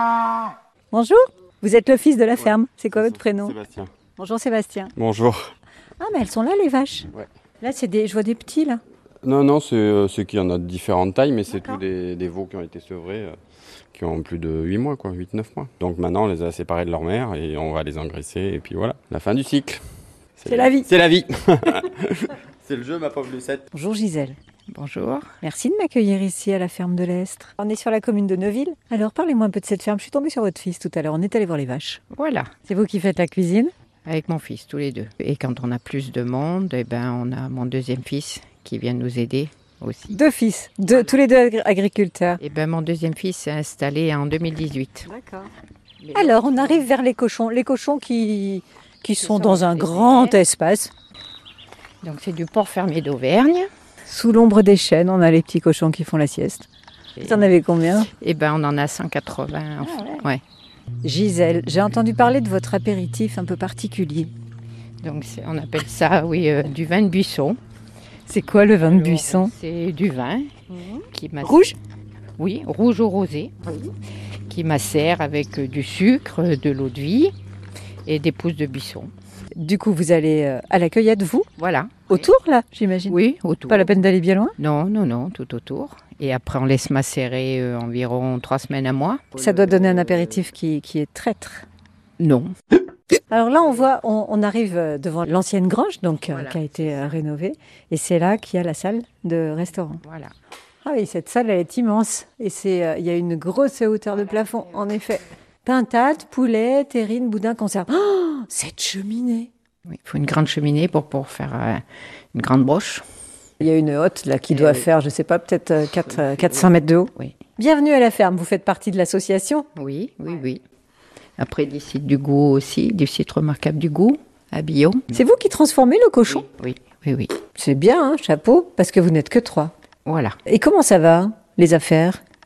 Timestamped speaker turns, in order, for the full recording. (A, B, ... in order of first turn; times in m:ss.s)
0:00.9-0:03.6 A
0:02.9-0:03.9 B
0:04.2-0:04.9 A
0:05.0-0:05.5 B
0:06.0-0:07.1 A
0:07.6-0:08.8 A
0:09.2-0:13.3 B
0:11.5-0:11.8 A
0:13.9-0:19.8 B
0:20.4-0:23.6 B
0:20.4-0:20.9 A
0:23.7-0:24.4 A
0:24.7-0:25.3 C
0:25.4-0:32.0 A
0:32.1-0:32.5 C
0:32.6-0:33.7 A
0:34.0-0:40.2 C
0:40.1-0:42.4 A
0:40.9-0:41.2 C
0:42.4-0:45.1 C
0:45.1-0:45.5 A
0:46.0-0:46.9 C
0:46.1-0:50.9 A
0:49.2-0:50.4 C
0:52.0-0:53.7 C
0:54.0-0:56.7 A
0:57.2-0:58.1 A
0:57.2-0:57.5 C
0:58.2-1:00.4 C
0:59.9-1:00.2 A
1:01.0-1:04.3 A
1:05.0-1:07.6 C
1:08.3-1:09.5 A
1:08.7-1:11.8 C
1:10.7-1:11.7 A
1:12.4-1:13.6 C
1:14.5-1:17.3 C
1:18.0-1:19.1 C
1:19.6-1:21.5 A
1:21.6-1:22.3 C
1:22.1-1:24.5 A
1:23.1-1:23.9 C
1:24.6-1:30.4 C
1:29.4-1:31.6 A
1:32.2-1:32.5 C
1:33.3-1:40.0 A
1:36.3-1:37.1 C
1:40.0-1:40.3 C
1:40.8-1:49.5 A
1:49.9-1:51.8 C
1:52.3-1:53.0 C
1:53.6-1:59.7 A
1:54.5-1:54.9 C
1:56.1-1:57.3 C
1:59.8-2:00.6 C
2:01.4-2:05.2 C
2:05.1-2:06.5 A
2:06.3-2:07.3 C
2:07.5-2:09.7 A
2:10.0-2:10.4 C
2:10.4-2:12.2 A